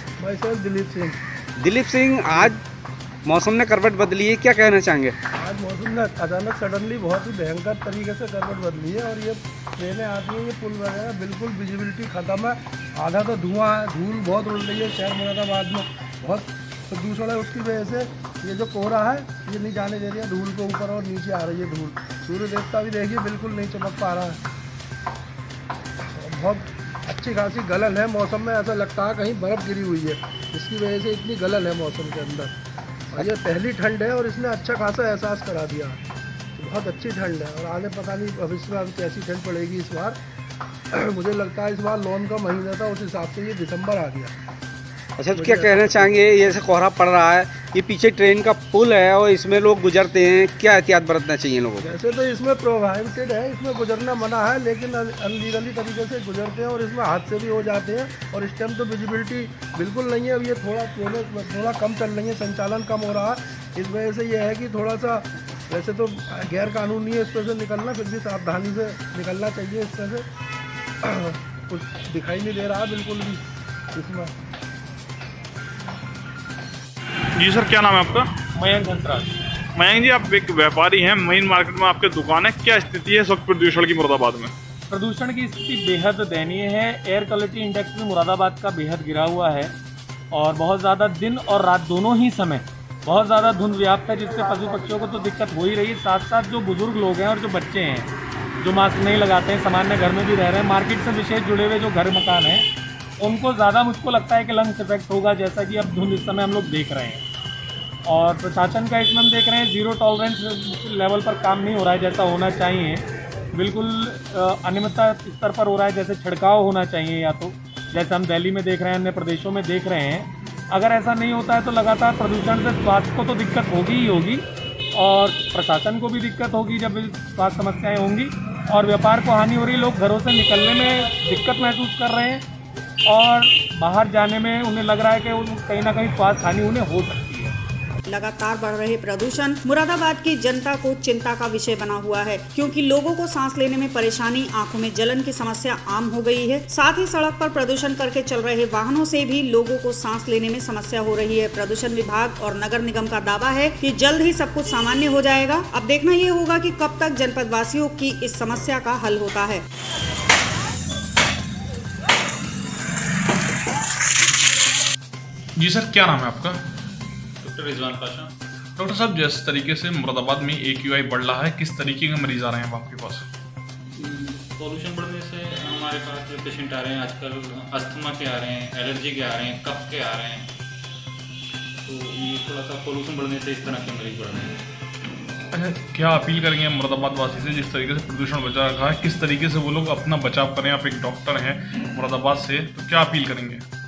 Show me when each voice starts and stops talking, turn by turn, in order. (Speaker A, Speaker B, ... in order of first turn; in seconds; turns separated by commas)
Speaker A: 0.2-1.2, Speaker B: 1.6-2.6, Speaker B: 3.2-5.1, Speaker A: 5.3-24.4, Speaker A: 26.1-32.5, Speaker A: 33.1-36.0, Speaker A: 36.5-40.2, Speaker A: 40.9-44.3, Speaker B: 45.2-51.9, Speaker A: 45.3-46.3, Speaker A: 51.8-70.2, Speaker A: 71.0-73.4, Speaker A: 73.9-74.3, Speaker C: 77.5-78.2, Speaker D: 78.5-79.3, Speaker C: 79.9-84.5, Speaker D: 84.9-89.7, Speaker D: 90.3-98.1, Speaker D: 98.6-102.7, Speaker D: 103.2-107.2, Speaker D: 108.1-132.4, Speaker D: 133.1-137.6, Speaker E: 138.1-159.6, Speaker C: 165.6-166.6, Speaker F: 167.4-168.3, Speaker C: 168.8-173.2, Speaker F: 174.0-180.5, Speaker F: 181.8-184.6, Speaker C: 185.5-193.6